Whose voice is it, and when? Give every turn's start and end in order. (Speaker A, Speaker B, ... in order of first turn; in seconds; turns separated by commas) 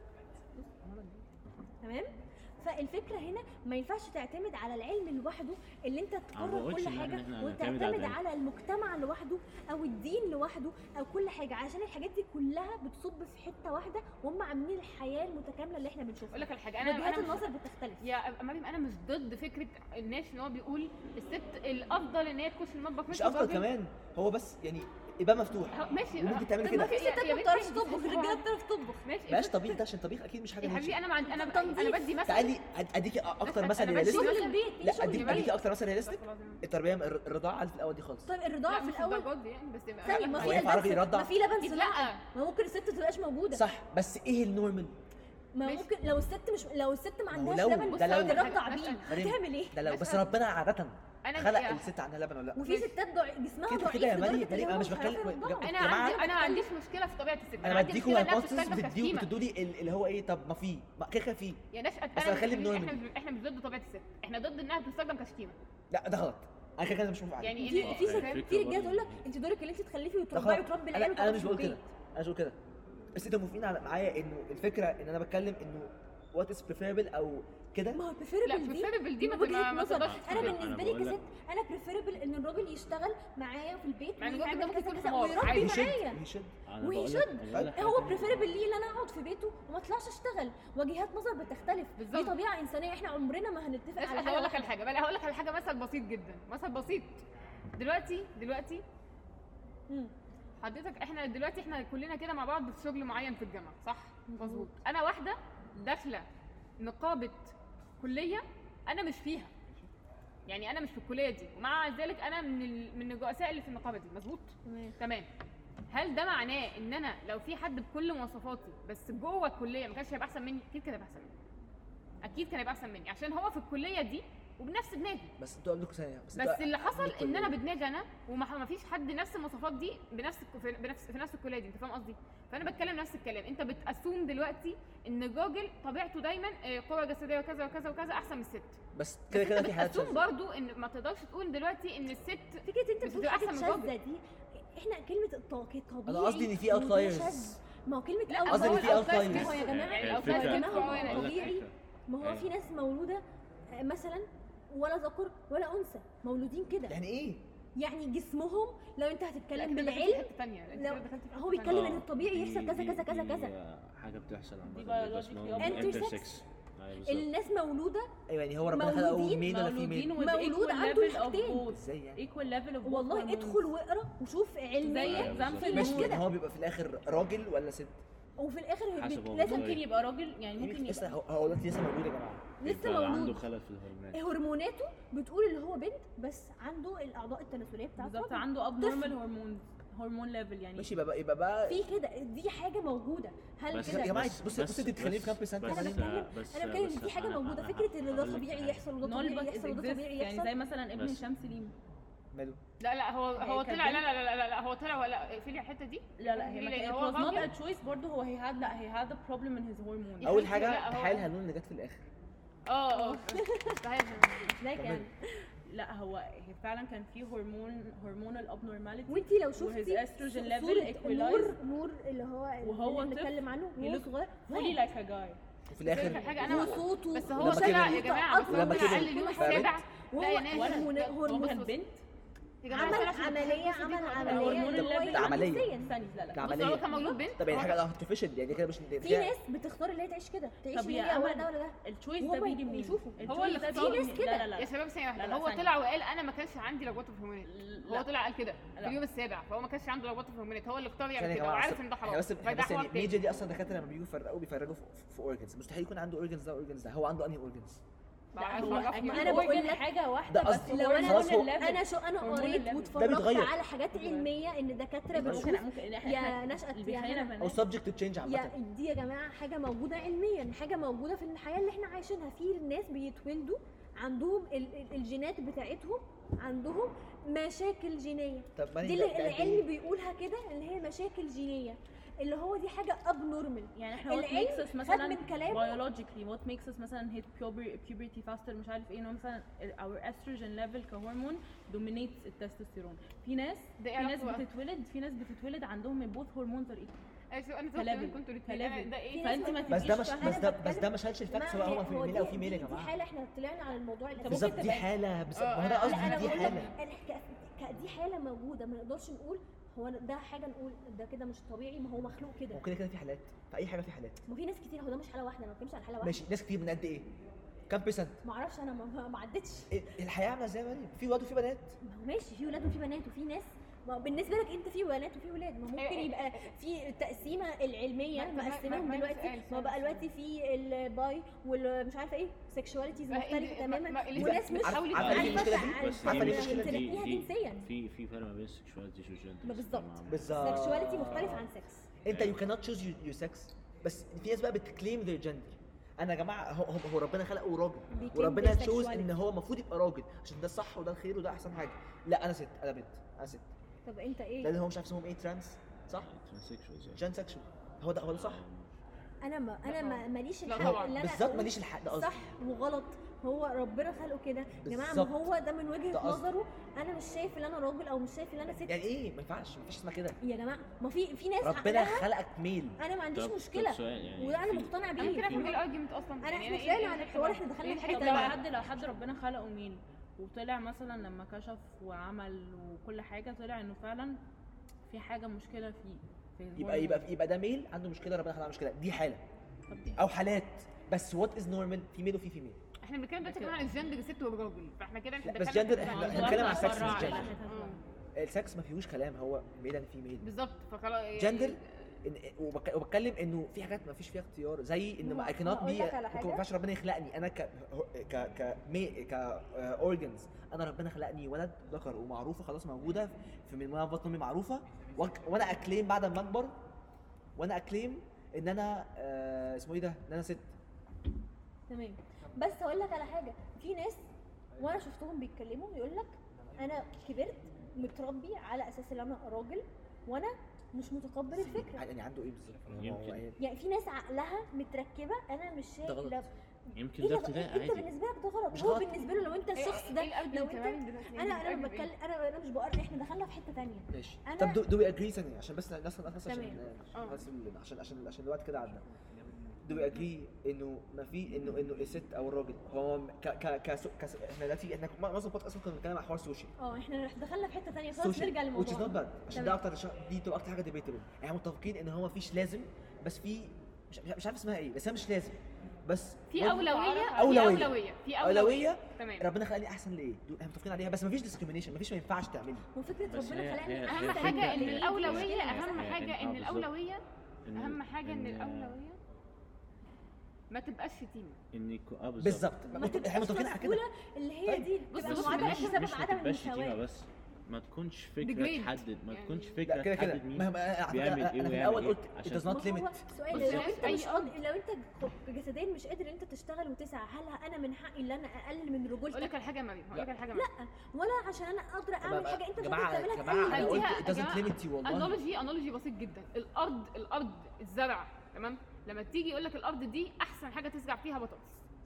Speaker A: 1.8-18.1, Speaker B: 6.3-8.2, Speaker C: 16.3-17.5, Speaker C: 18.0-23.7, Speaker D: 23.1-26.9, Speaker C: 25.7-29.6, Speaker A: 26.6-29.0, Speaker D: 29.3-31.0, Speaker C: 30.6-32.5, Speaker A: 31.2-32.2, Speaker D: 32.2-38.3, Speaker C: 33.4-36.6, Speaker A: 34.0-35.5, Speaker A: 38.2-39.3, Speaker C: 38.7-40.9, Speaker A: 40.0-43.6, Speaker D: 40.1-41.3, Speaker C: 41.6-42.2, Speaker D: 43.5-45.0, Speaker A: 45.5-49.8, Speaker C: 45.6-45.9, Speaker D: 47.3-52.9, Speaker C: 47.8-49.1, Speaker C: 49.8-50.3, Speaker C: 51.2-51.9, Speaker A: 52.5-56.7, Speaker D: 53.7-56.2, Speaker C: 55.6-59.3, Speaker D: 57.6-61.6, Speaker C: 61.7-65.5, Speaker D: 62.1-63.0, Speaker D: 65.9-67.7, Speaker C: 67.4-68.4, Speaker A: 67.6-71.8, Speaker B: 67.7-69.3, Speaker D: 70.3-72.6, Speaker D: 73.1-78.0, Speaker A: 77.9-86.2, Speaker C: 78.4-80.6, Speaker B: 79.8-81.2, Speaker C: 84.2-85.8, Speaker D: 85.3-86.5, Speaker B: 86.7-88.5, Speaker A: 86.8-94.7, Speaker C: 92.0-92.3, Speaker C: 94.0-97.2, Speaker C: 97.7-98.8, Speaker C: 100.6-106.2, Speaker A: 104.3-104.7, Speaker C: 106.8-109.5, Speaker C: 110.5-115.3, Speaker A: 114.6-115.0, Speaker C: 115.9-121.3, Speaker C: 122.2-125.3, Speaker D: 125.4-127.6, Speaker C: 126.3-138.8, Speaker D: 138.9-140.2, Speaker C: 139.3-143.9, Speaker A: 142.6-156.9, Speaker D: 146.1-147.6, Speaker C: 148.3-151.6, Speaker D: 148.5-149.7, Speaker B: 149.1-152.5, Speaker D: 156.9-157.4, Speaker A: 157.8-163.5, Speaker C: 159.5-161.9, Speaker B: 161.6-167.3, Speaker E: 164.6-166.2, Speaker A: 165.6-166.3, Speaker A: 167.0-168.1, Speaker D: 168.3-170.2, Speaker A: 168.7-169.5, Speaker E: 169.4-173.7, Speaker A: 170.1-171.6, Speaker D: 171.7-172.2, Speaker A: 172.8-176.2, Speaker E: 174.8-176.2, Speaker B: 175.1-175.9, Speaker D: 175.7-178.0, Speaker A: 178.4-179.8, Speaker B: 178.9-179.8, Speaker E: 179.4-181.2, Speaker D: 180.6-182.5, Speaker A: 182.6-183.4, Speaker B: 182.6-184.2, Speaker A: 184.1-189.2, Speaker E: 188.0-190.9, Speaker D: 190.8-191.8, Speaker A: 191.7-194.1, Speaker B: 193.7-198.9, Speaker D: 193.8-196.1, Speaker A: 195.6-200.5, Speaker E: 199.0-201.7, Speaker B: 200.9-201.2, Speaker D: 202.3-202.6, Speaker C: 202.8-207.5, Speaker A: 203.4-203.9, Speaker E: 203.4-204.1, Speaker E: 206.2-210.5, Speaker C: 210.2-211.3, Speaker D: 210.2-212.1, Speaker C: 212.7-214.5, Speaker A: 212.9-213.8, Speaker A: 214.5-215.1, Speaker D: 214.8-215.1, Speaker E: 215.7-221.6, Speaker A: 219.1-224.8, Speaker E: 222.6-225.4, Speaker D: 225.7-229.7, Speaker C: 225.8-231.7, Speaker E: 226.0-226.3, Speaker A: 226.4-231.7, Speaker E: 230.5-232.0, Speaker C: 232.6-234.7, Speaker E: 232.7-233.6, Speaker A: 232.7-235.9, Speaker E: 234.1-236.6, Speaker D: 234.8-235.7, Speaker D: 236.3-239.3, Speaker C: 236.4-237.8, Speaker A: 236.9-237.2, Speaker A: 239.0-244.5, Speaker E: 240.7-245.7, Speaker C: 243.2-253.2, Speaker E: 247.4-248.1, Speaker E: 248.7-249.0, Speaker D: 251.2-257.8, Speaker C: 258.3-259.6, Speaker E: 258.4-263.1, Speaker A: 258.4-259.9, Speaker D: 260.2-261.4, Speaker A: 260.5-267.4, Speaker D: 263.0-263.5, Speaker E: 263.9-264.3, Speaker D: 265.1-265.5, Speaker E: 265.1-267.6, Speaker D: 267.4-268.6, Speaker A: 268.2-285.8, Speaker D: 278.6-279.7, Speaker E: 283.7-296.9, Speaker C: 293.8-294.4, Speaker C: 297.3-299.6, Speaker E: 297.7-300.5, Speaker A: 299.1-304.9, Speaker D: 299.7-302.9, Speaker E: 304.2-304.7, Speaker D: 304.3-306.7, Speaker C: 305.3-306.7, Speaker A: 305.8-312.6, Speaker D: 312.5-314.2, Speaker A: 314.3-316.3, Speaker D: 316.0-317.1, Speaker D: 317.7-318.2, Speaker A: 318.2-319.7, Speaker D: 319.7-321.8, Speaker A: 321.8-337.7, Speaker C: 325.8-326.5, Speaker C: 328.1-330.0, Speaker C: 333.1-335.6, Speaker D: 334.1-336.9, Speaker B: 334.9-341.4, Speaker A: 339.4-341.9, Speaker D: 340.1-341.5, Speaker D: 342.0-353.5, Speaker B: 342.1-342.4, Speaker A: 347.9-349.1, Speaker A: 353.8-354.5, Speaker D: 354.4-356.1, Speaker B: 356.0-357.0, Speaker D: 356.9-358.4, Speaker B: 358.1-358.7, Speaker A: 359.2-368.8, Speaker C: 359.6-360.9, Speaker D: 360.6-362.3, Speaker D: 364.6-365.3, Speaker D: 365.9-366.3, Speaker D: 368.7-370.2, Speaker A: 370.2-372.1, Speaker D: 371.4-372.8, Speaker A: 372.8-375.6, Speaker B: 373.1-375.6, Speaker C: 375.0-378.4, Speaker A: 376.2-378.4, Speaker E: 377.8-384.2, Speaker E: 384.9-387.0, Speaker D: 386.6-389.2, Speaker E: 389.7-390.0, Speaker D: 389.9-392.6, Speaker C: 392.8-397.8, Speaker E: 393.2-393.6, Speaker D: 395.2-397.4, Speaker E: 395.7-397.8, Speaker D: 398.1-400.3, Speaker C: 400.2-401.9, Speaker D: 401.1-416.6, Speaker A: 405.0-406.4, Speaker D: 417.4-420.5, Speaker A: 421.7-424.0, Speaker A: 424.6-431.8, Speaker D: 431.3-433.4, Speaker B: 432.8-433.2, Speaker A: 433.4-444.6, Speaker D: 435.8-436.2, Speaker B: 436.8-437.9, Speaker D: 438.5-439.1, Speaker C: 439.6-441.9, Speaker D: 443.9-448.8, Speaker A: 446.2-446.6, Speaker C: 446.9-447.2, Speaker D: 449.6-456.5, Speaker A: 456.6-459.6, Speaker D: 457.9-472.7, Speaker C: 466.3-469.3, Speaker A: 466.5-467.6, Speaker A: 472.7-475.9, Speaker B: 473.1-476.7, Speaker C: 473.8-477.0, Speaker B: 477.4-478.8, Speaker C: 477.6-479.0, Speaker C: 480.5-481.4, Speaker B: 481.5-482.5, Speaker D: 482.2-483.8, Speaker A: 482.7-486.8, Speaker D: 484.4-484.7, Speaker C: 484.9-485.8, Speaker B: 485.0-492.6, Speaker C: 488.2-489.6, Speaker D: 489.6-493.9, Speaker A: 492.4-499.3, Speaker B: 493.3-493.9, Speaker C: 493.3-494.4, Speaker C: 499.1-500.5, Speaker A: 500.3-503.9, Speaker D: 502.0-505.2, Speaker C: 503.5-511.6